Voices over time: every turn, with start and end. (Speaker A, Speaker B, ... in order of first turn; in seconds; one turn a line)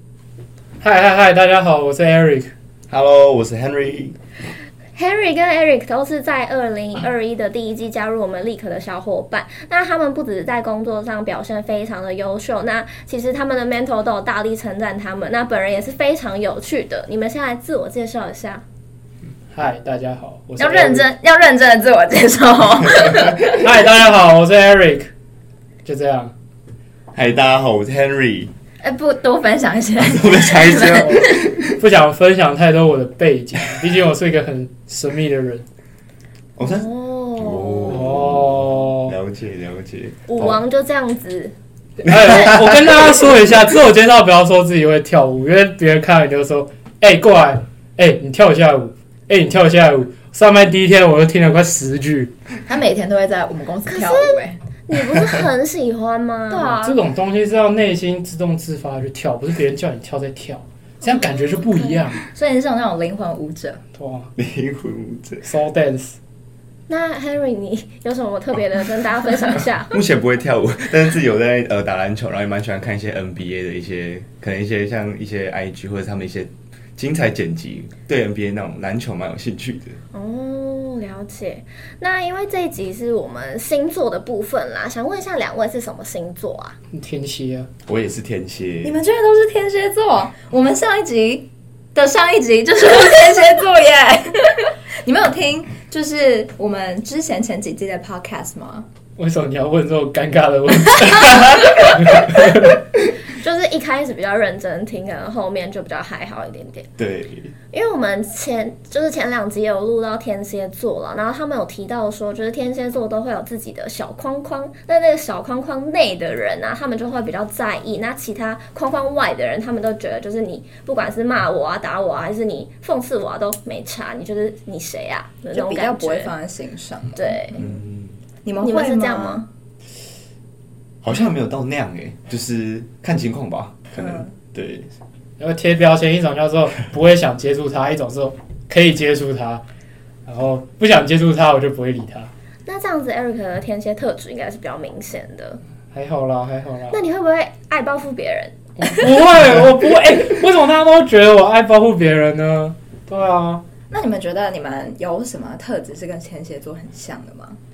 Speaker A: 0.8-2.5
Speaker B: 2.9-4.2
Speaker C: 5.0-18.6
Speaker A: 19.5-21.1
Speaker D: 20.6-23.6
Speaker A: 23.5-25.1
Speaker A: 25.8-26.3
Speaker B: 27.1-28.5
Speaker D: 28.8-31.6
Speaker B: 30.0-31.7
Speaker A: 31.8-35.6
Speaker B: 36.6-40.6
Speaker C: 36.6-38.0
Speaker A: 37.9-39.1
Speaker C: 40.3-41.5
Speaker A: 42.0-52.3
Speaker B: 42.0-43.1
Speaker D: 52.7-54.6
Speaker C: 53.9-57.0
Speaker A: 56.6-62.2
Speaker C: 61.0-62.1
Speaker D: 62.3-63.8
Speaker A: 64.0-64.3
Speaker B: 64.4-65.5
Speaker A: 65.4-66.2
Speaker C: 66.9-70.0
Speaker B: 69.9-80.0
Speaker C: 80.1-86.8
Speaker A: 86.9-87.7
Speaker B: 87.9-89.0
Speaker D: 88.8-98.9
Speaker A: 99.2-102.7
Speaker C: 103.3-106.9
Speaker B: 107.0-107.5
Speaker C: 107.7-126.3
Speaker D: 125.5-127.6
Speaker C: 127.2-127.6
Speaker B: 127.5-128.2
Speaker D: 128.4-129.5
Speaker C: 128.6-129.4
Speaker B: 131.0-134.9
Speaker D: 134.0-134.3
Speaker A: 135.4-139.6
Speaker A: 140.3-142.3
Speaker C: 142.7-145.6
Speaker A: 145.9-147.0
Speaker C: 146.9-148.5
Speaker A: 148.8-153.6
Speaker D: 153.9-157.6